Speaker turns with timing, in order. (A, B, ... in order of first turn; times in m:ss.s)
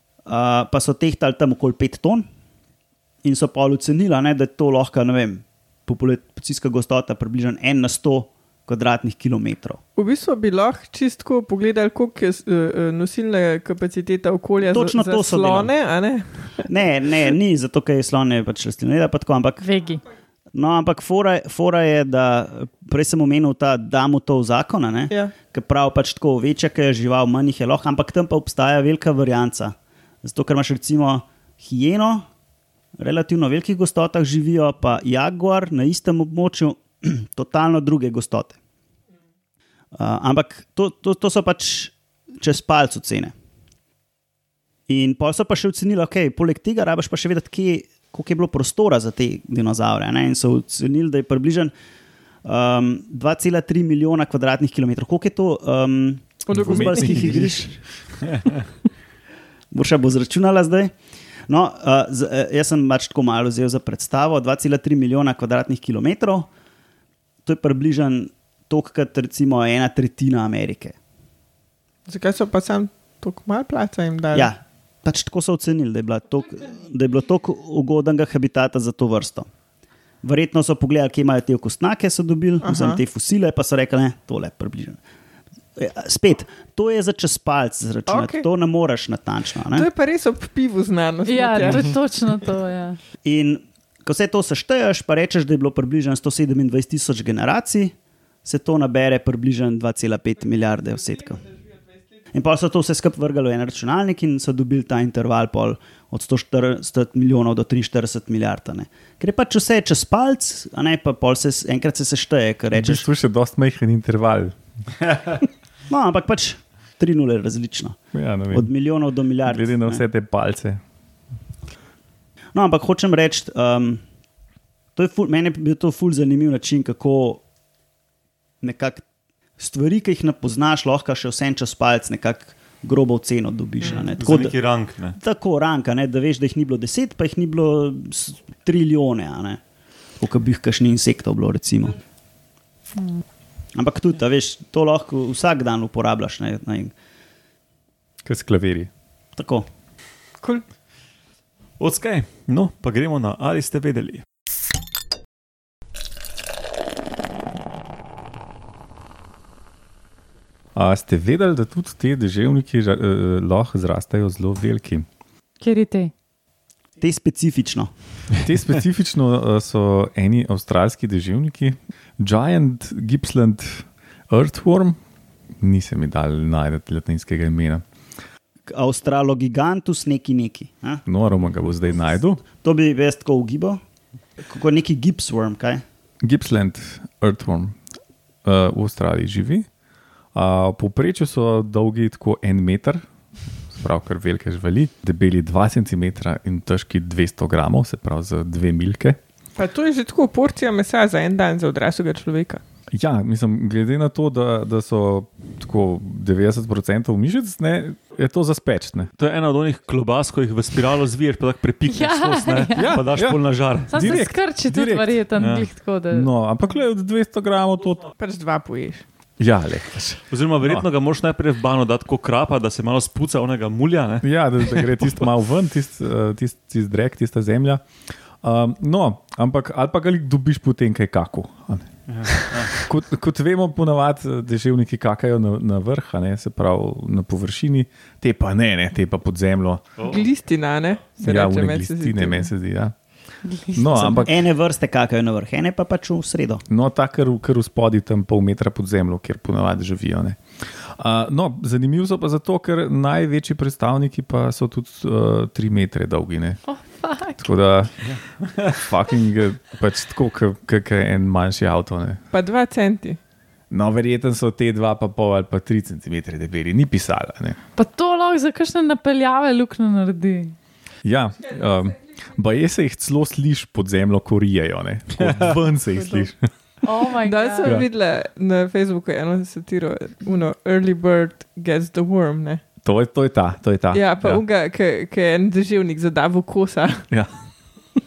0:00.3-0:02.3 A
0:03.2-0:09.8 A
0:10.0-0:16.7 B
0:14.6-0:15.7 A
0:16.7-0:19.6 A
0:19.6-0:20.0 C
0:20.5-0:32.3 A
0:33.0-0:38.6 A
0:40.0-0:43.3 A
0:44.9-0:51.7 A
0:52.4-0:57.7 A
0:56.5-0:57.5 B
0:56.5-0:57.5 D
0:59.7-1:00.9 A
1:01.5-1:06.5 A
1:07.4-1:11.0 A
1:12.1-1:14.5 B
1:14.3-1:19.5 A
1:20.2-1:25.0 A
1:22.6-1:23.0 B
1:25.8-1:29.9 A
1:28.1-1:28.5 B
1:29.7-1:32.0 B
1:31.2-1:33.0 C
1:33.2-1:37.9 A
1:38.4-1:41.5 A
1:42.3-1:53.0 A
1:52.8-1:54.6 D
1:55.9-1:58.0 A
1:58.1-1:58.7 D
1:58.5-2:00.0 A
1:59.5-2:00.8 D
2:02.5-2:04.0 A
2:05.0-2:07.4 A
2:08.6-2:09.0 A
2:09.6-2:14.6 A
2:13.9-2:14.1 B
2:14.2-2:15.2 E
2:15.2-2:19.6 A
2:20.2-2:22.0 A
2:23.0-2:23.2 C
2:23.8-2:26.9 A
2:28.2-2:28.9 D
2:29.4-2:29.7 A
2:31.8-2:34.2 E
2:40.8-2:45.1 D
2:45.6-2:46.1 C
2:47.0-2:47.9 A
2:48.4-2:55.0 D
2:55.6-2:57.8 D
2:58.7-3:01.0 A
3:01.1-3:02.4 D
3:02.5-3:03.8 A
3:04.4-3:05.8 A
3:06.2-3:07.8 D
3:08.4-3:09.7 D
3:10.3-3:13.1 D
3:13.7-3:19.2 D
3:19.6-3:22.6 B
3:22.9-3:29.1 D
3:29.2-3:34.3 E
3:31.9-3:33.1 C
3:32.8-3:35.2 D
3:33.9-3:36.3 C
3:35.4-3:35.7 E
3:36.1-3:38.1 D
3:38.2-3:39.0 B
3:39.4-3:40.9 D
3:40.3-3:45.1 E
3:44.2-3:47.8 D
3:48.4-3:59.8 D
3:52.1-3:52.7 E
4:00.0-4:00.2 E
4:00.0-4:02.5 B
4:01.2-4:03.0 D
4:03.6-4:04.3 D
4:03.9-4:06.7 A
4:06.7-4:16.6 D
4:16.7-4:17.4 C
4:17.4-4:18.0 D
4:18.0-4:18.8 E
4:18.7-4:22.2 D
4:22.3-4:23.2 B
4:23.7-4:27.6 D
4:27.8-4:30.6 C
4:31.0-4:36.4 D
4:35.2-4:35.5 E
4:36.8-4:37.8 C
4:37.2-4:42.6 B
4:42.8-4:44.4 D
4:43.9-4:47.1 B